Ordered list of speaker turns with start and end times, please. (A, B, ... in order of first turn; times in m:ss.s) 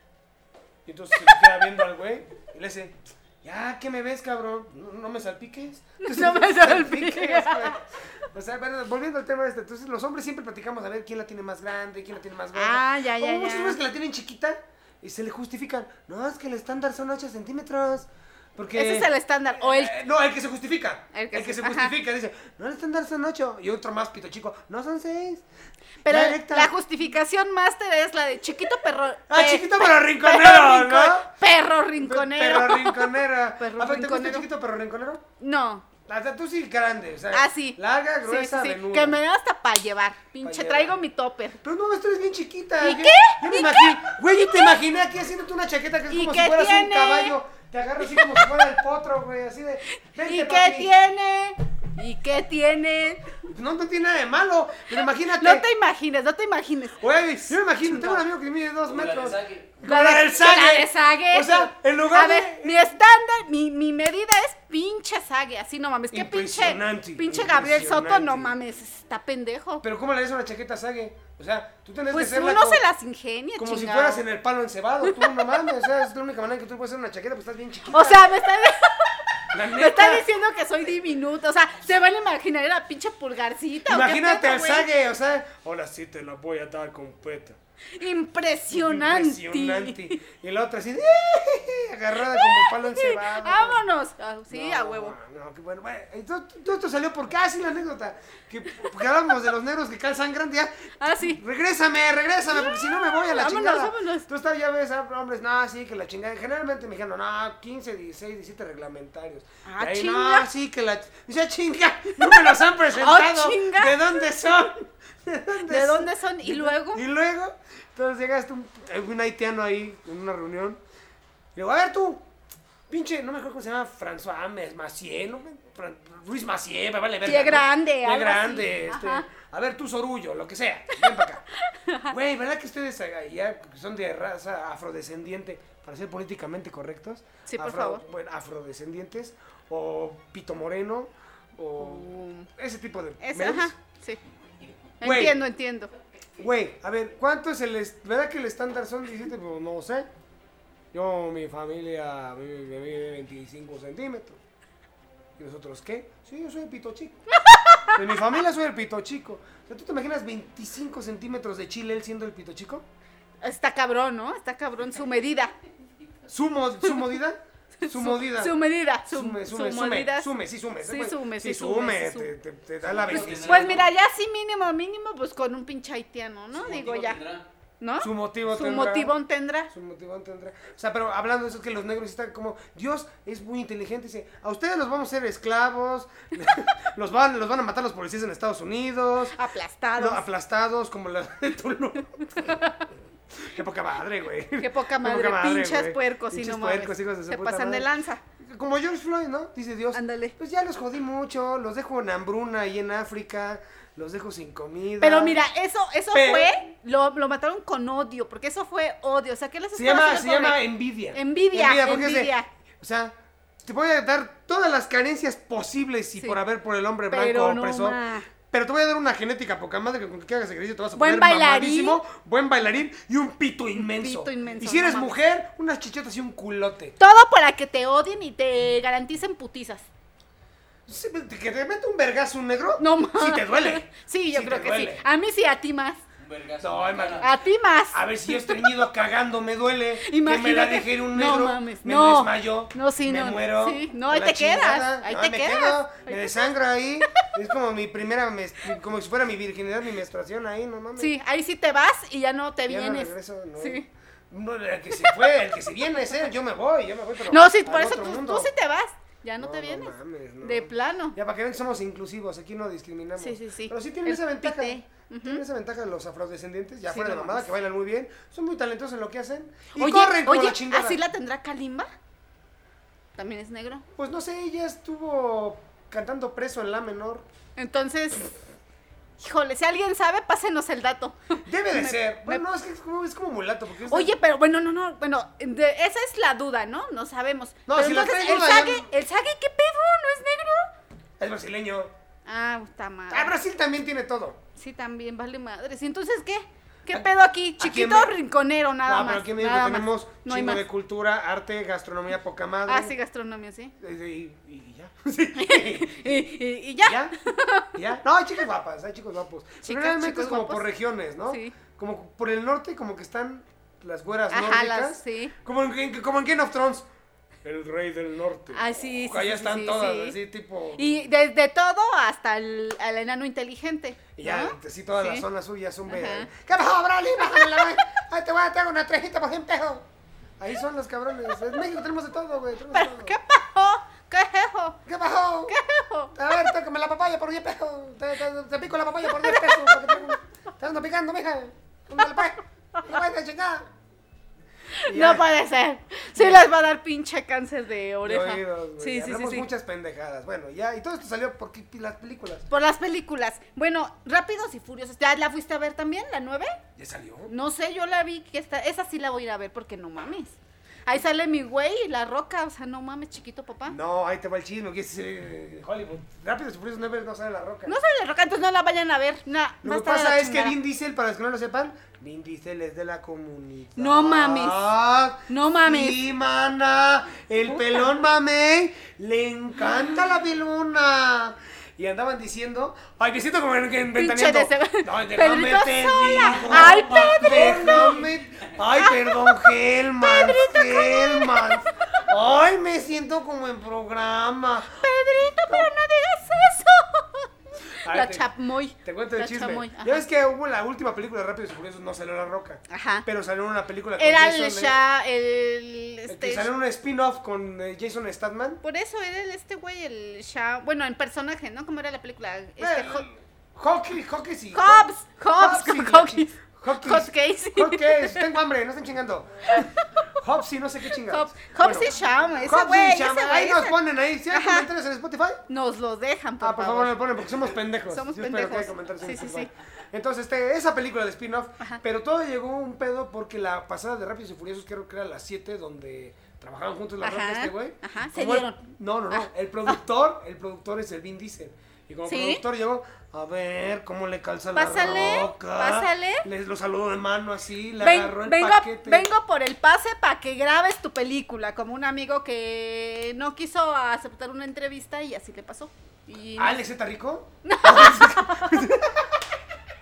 0:00.8-0:25.4 A
0:06.0-0:07.8 B
0:12.6-0:13.8 B
0:18.7-0:20.0 B
0:21.1-0:21.9 B
0:26.0-0:34.5 B
0:26.1-0:26.7 A
0:29.3-0:31.3 A
0:32.0-0:35.2 A
0:35.4-0:35.9 B
0:36.1-0:39.2 A
0:37.3-0:41.6 B
0:40.4-0:41.0 A
0:41.6-0:50.9 A
0:42.8-0:44.8 B
0:46.1-0:47.4 B
0:48.0-0:48.5 B
0:49.9-0:53.4 B
0:53.5-0:55.7 A
0:55.3-0:57.0 B
0:57.0-1:02.9 A
0:57.8-0:58.2 B
0:58.9-0:59.8 C
0:59.8-1:09.8 B
1:06.1-1:08.6 A
1:09.8-1:12.8 A
1:12.1-1:14.2 B
1:13.6-1:18.4 A
1:15.1-1:15.5 B
1:17.9-1:24.9 B
1:19.5-1:20.2 A
1:23.9-1:27.6 A
1:28.0-1:30.2 B
1:28.7-1:33.8 A
1:32.3-1:35.2 B
1:34.5-2:00.8 A
1:41.0-1:41.4 B
1:42.5-1:44.3 B
1:49.6-1:50.5 B
1:52.2-1:54.0 B
1:55.7-1:57.0 B
2:01.6-2:02.3 A
2:02.9-2:11.4 A
2:07.2-2:09.3 B
2:11.6-2:12.1 B
2:12.1-2:23.7 A
2:17.5-2:18.0 B
2:21.8-2:22.5 B
2:23.2-2:24.2 B
2:25.0-2:25.4 A
2:25.0-2:25.9 B
2:26.4-2:30.1 A
2:30.9-2:34.4 A
2:35.4-2:37.2 A
2:37.3-2:38.0 B
2:37.9-2:42.9 A
2:43.4-2:45.5 B
2:46.3-2:53.9 A
2:47.8-2:50.3 B
2:50.8-2:52.3 B
2:52.9-2:53.9 C
2:53.1-2:57.2 B
2:56.5-2:57.4 C
2:57.8-2:59.7 B
2:58.0-2:59.2 A
2:59.7-3:09.4 A
3:09.3-3:10.2 B
3:10.0-3:12.6 A
3:12.3-3:12.8 B
3:13.3-3:17.9 A
3:14.6-3:18.2 B
3:18.4-3:25.4 A
3:19.9-3:20.4 B
3:25.0-3:32.5 B
3:26.1-3:26.6 A
3:29.7-3:47.0 A
3:37.1-3:38.3 B
3:41.0-3:42.0 B
3:43.8-3:45.2 B
3:47.0-3:49.9 B
3:50.9-3:55.0 A
3:52.8-3:56.0 B
3:56.2-3:57.3 C
3:56.6-3:57.3 A
3:57.2-3:58.7 B
3:57.9-4:11.2 A
4:00.0-4:06.5 B
4:11.0-4:13.9 B
4:12.7-4:18.5 A
4:17.3-4:21.2 B
4:19.4-4:31.0 A
4:23.2-4:25.4 B
4:26.9-4:27.5 B
4:29.8-4:31.9 B
4:33.2-4:33.9 B
4:34.0-4:37.3 A
4:37.6-4:38.4 B
4:39.2-4:42.4 B
4:41.5-4:44.1 A
4:43.9-4:50.7 B
4:47.7-4:48.9 A
4:51.2-4:51.9 A
4:52.3-4:53.3 B
4:53.1-4:54.4 A
4:54.6-5:00.6 B
4:57.6-4:58.1 A
4:58.8-5:03.0 A
5:02.7-5:03.7 B
5:03.8-5:07.2 A
5:05.4-5:07.7 B
5:07.8-5:16.9 A
5:09.6-5:10.7 B
5:11.3-5:11.5 B
5:14.3-5:15.3 B
5:17.4-5:21.0 A
5:18.5-5:20.2 B
5:20.8-5:25.3 B
5:24.2-5:29.9 A
5:25.9-5:26.3 B
5:30.4-5:33.2 A
5:32.7-5:34.8 B
5:34.9-5:35.6 A
5:35.5-5:36.2 B
5:36.1-5:43.7 A
5:39.1-5:40.1 B
5:42.1-5:43.0 B
5:44.8-5:49.5 B
5:44.9-5:45.3 A
5:46.2-5:46.5 A
5:48.0-5:52.5 A
5:52.5-5:56.6 B
5:56.8-5:57.3 A
5:57.3-6:03.8 B
6:03.7-6:07.8 A
6:07.7-6:10.6 B
6:09.6-6:34.8 A
6:13.8-6:14.7 B
6:15.3-6:16.0 B
6:17.5-6:17.9 B
6:23.9-6:28.1 B
6:28.8-6:31.7 B
6:34.7-6:40.0 B
6:35.4-6:35.7 A
6:37.8-6:38.3 A
6:38.8-6:44.8 A
6:42.7-6:43.0 B
6:44.0-6:46.5 B
6:46.1-6:48.6 A
6:48.6-6:53.1 B
6:52.6-7:05.4 A
6:54.5-6:58.3 B
7:01.1-7:03.8 B
7:04.3-7:04.7 B
7:05.5-7:07.3 B
7:06.4-7:29.1 A
7:07.9-7:09.5 B
7:17.0-7:18.6 B
7:19.1-7:19.8 B
7:22.1-7:22.4 B
7:24.5-7:26.3 B
7:27.8-7:36.6 B
7:36.4-7:39.2 A
7:37.4-7:38.7 B